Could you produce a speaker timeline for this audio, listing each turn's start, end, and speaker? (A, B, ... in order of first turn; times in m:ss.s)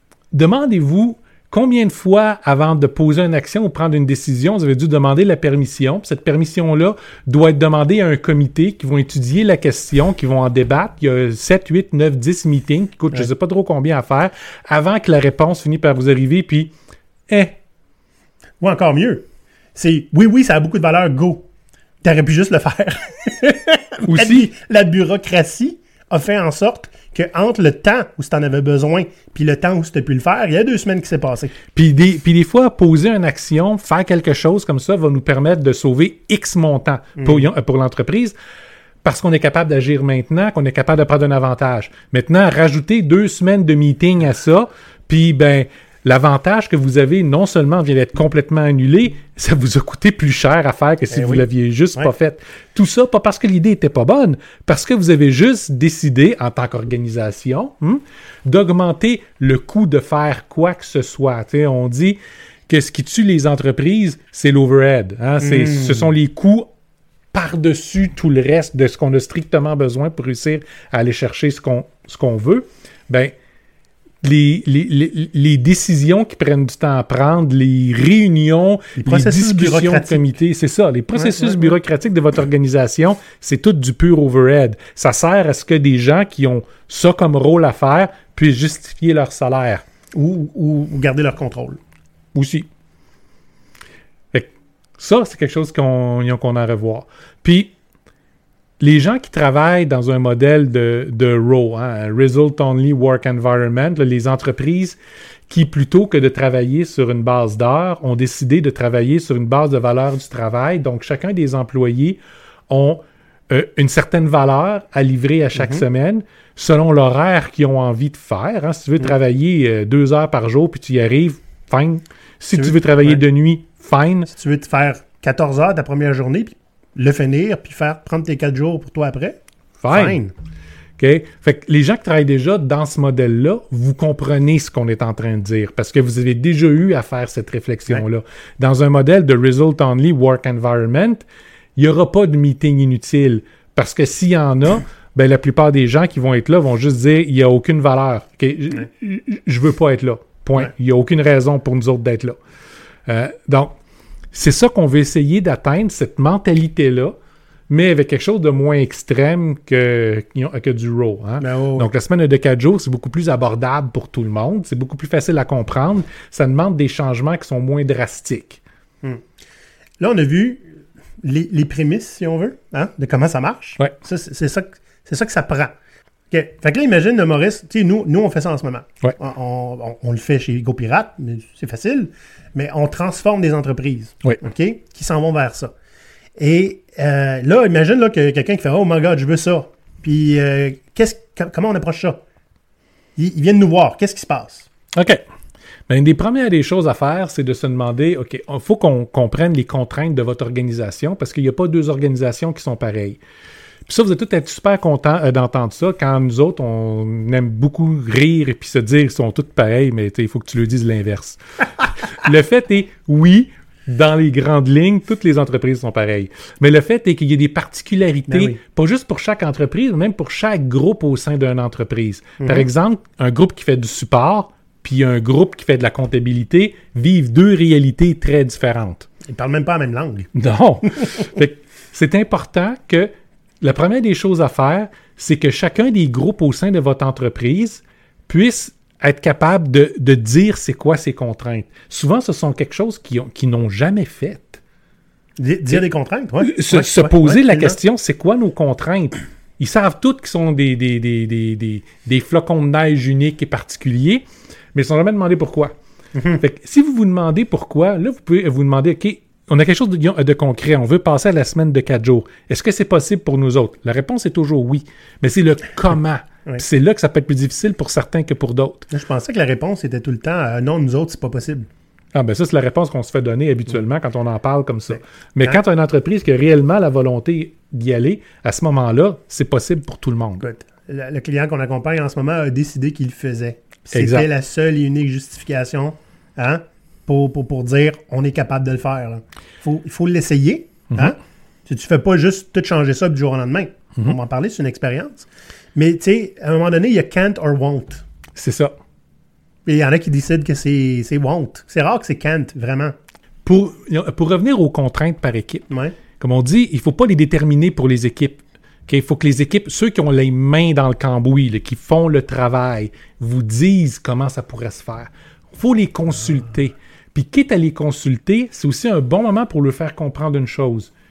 0:00.3-0:16.7 A
0:17.3-0:17.6 A
0:18.6-0:21.5 B
0:22.0-0:31.6 B
0:24.0-0:24.5 A
0:31.7-0:38.3 A
0:37.2-0:37.5 B
0:39.0-1:06.7 A
0:51.1-0:52.1 B
1:05.4-1:06.1 B
1:07.3-1:13.3 A
1:14.2-1:29.8 A
1:19.0-1:20.3 B
1:21.1-1:21.8 B
1:30.1-1:31.8 B
1:32.3-1:32.7 A
1:34.3-1:37.7 A
1:38.8-1:45.0 A
1:45.5-2:04.3 A
1:55.6-1:55.8 B
2:02.5-2:03.2 B
2:04.3-2:10.3 B
2:09.8-2:10.2 A
2:11.0-2:21.2 A
2:21.8-2:32.4 A
2:33.1-2:33.8 A
2:34.3-2:37.1 A
2:37.7-2:48.6 A
2:41.4-2:41.9 B
2:50.0-2:50.7 B
2:51.2-2:55.7 B
2:56.3-3:05.7 B
3:06.4-3:12.2 B
3:13.2-3:14.7 B
3:14.9-3:15.2 A
3:15.9-3:23.2 A
3:23.8-3:49.1 A
3:38.3-3:38.6 B
3:42.4-3:42.6 B
3:49.2-3:50.3 B
3:50.3-4:04.6 A
4:05.4-4:07.8 B
4:06.4-4:14.2 A
4:14.7-4:15.7 A
4:16.1-4:16.4 B
4:16.4-4:28.8 A
4:28.9-4:31.7 B
4:32.1-4:40.4 A
4:40.4-4:58.0 B
4:43.9-4:44.3 A
4:58.4-4:58.7 A
4:59.6-5:02.9 B
5:03.4-5:05.6 A
5:05.7-5:06.0 B
5:06.2-5:20.9 A